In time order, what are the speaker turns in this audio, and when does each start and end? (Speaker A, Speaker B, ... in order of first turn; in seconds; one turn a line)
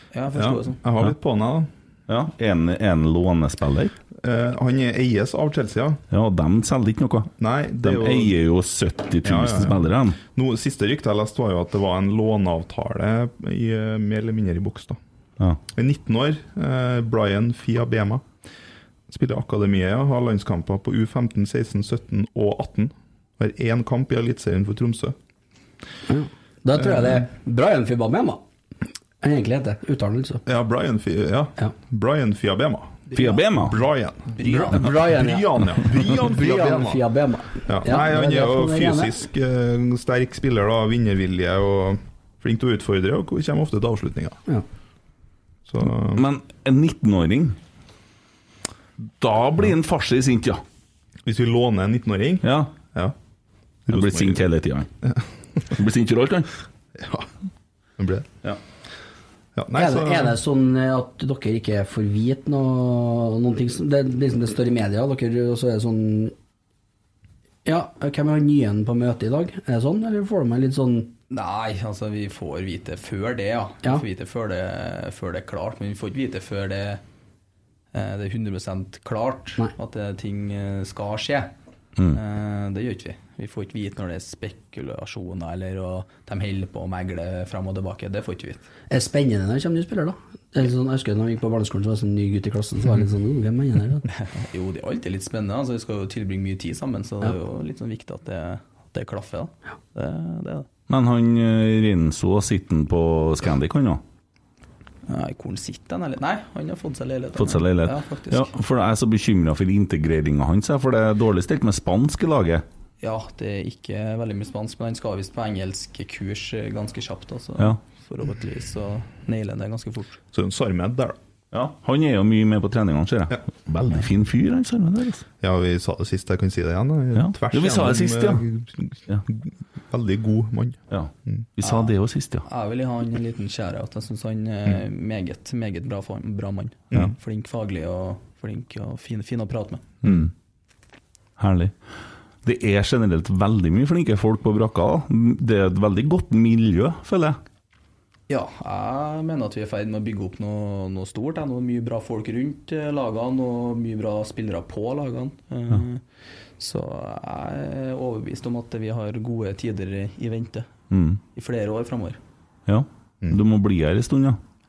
Speaker A: 0.1-0.8
Speaker B: 0.3-1.7
Speaker C: 2.1-3.9
Speaker B: 4.2-6.0
Speaker C: 6.1-7.3
Speaker B: 7.4-8.4
Speaker C: 7.8-10.2
Speaker B: 9.2-15.0
Speaker B: 15.7-18.2
Speaker B: 19.1-25.1
Speaker D: 26.1-28.4
Speaker B: 26.9-27.2
Speaker D: 29.2-30.4
Speaker B: 30.5-33.1
Speaker C: 33.1-33.8
Speaker B: 33.7-37.1
Speaker A: 34.4-34.8
Speaker D: 34.5-39.1
Speaker B: 37.7-44.4
Speaker B: 45.7-46.2
Speaker C: 46.2-47.6
Speaker C: 49.2-50.6
Speaker B: 51.3-53.1
Speaker C: 52.4-52.8
Speaker B: 53.9-54.5
Speaker C: 53.9-54.9
Speaker C: 55.7-56.5
Speaker B: 57.0-57.3
Speaker B: 58.0-58.3
Speaker B: 59.6-60.4
Speaker D: 59.7-66.3
Speaker D: 67.7-71.1
Speaker A: 71.3-77.0
Speaker A: 77.9-81.5
Speaker A: 82.1-88.6
Speaker D: 88.9-94.1
Speaker A: 94.1-100.7
Speaker C: 100.9-104.0
Speaker A: 105.1-108.5
Speaker C: 107.4-112.6
Speaker A: 113.0-120.2
Speaker B: 120.3-121.2
Speaker C: 121.5-125.2
Speaker B: 125.4-131.5
Speaker C: 127.2-128.4
Speaker C: 130.9-132.4
Speaker A: 131.6-131.9
Speaker A: 132.4-139.9
Speaker C: 140.0-140.3
Speaker C: 141.4-141.7
Speaker C: 142.4-147.4
Speaker A: 148.3-156.0
Speaker A: 156.6-160.7
Speaker C: 160.9-161.2
Speaker A: 161.3-162.2
Speaker C: 162.7-164.4